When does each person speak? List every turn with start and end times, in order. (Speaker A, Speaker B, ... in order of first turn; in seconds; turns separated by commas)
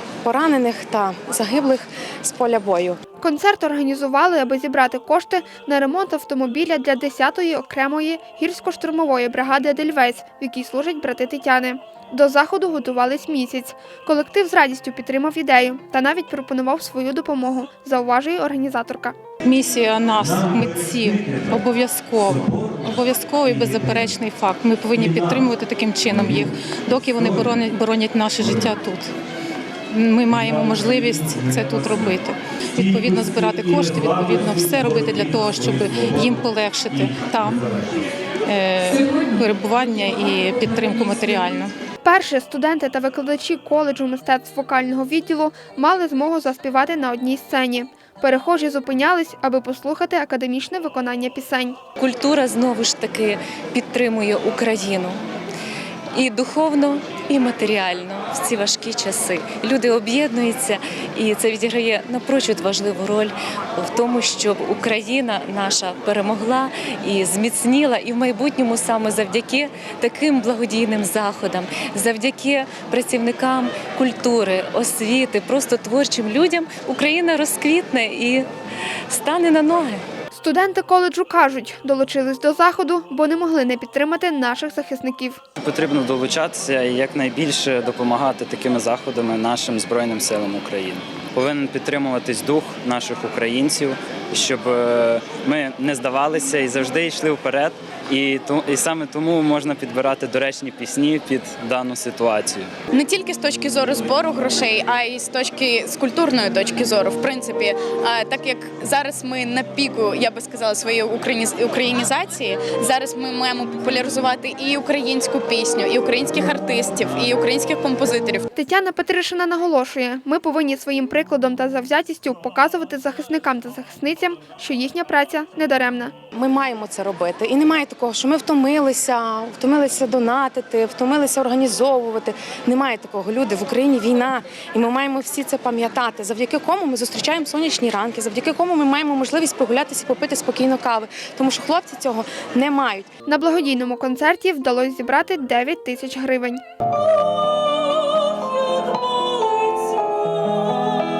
Speaker A: 0.2-3.0, Speaker B: 3.2-19.1, Speaker C: 19.4-29.1, Speaker C: 29.9-37.7, Speaker C: 38.4-41.7, Speaker B: 42.0-51.8, Speaker D: 52.0-55.2, Speaker D: 56.1-78.5, Speaker D: 79.1-80.0, Speaker B: 80.3-85.4, Speaker E: 85.6-102.7, Speaker F: 102.9-118.4, Speaker B: 118.5-126.1, Speaker A: 126.3-143.1, Speaker B: 143.2-146.6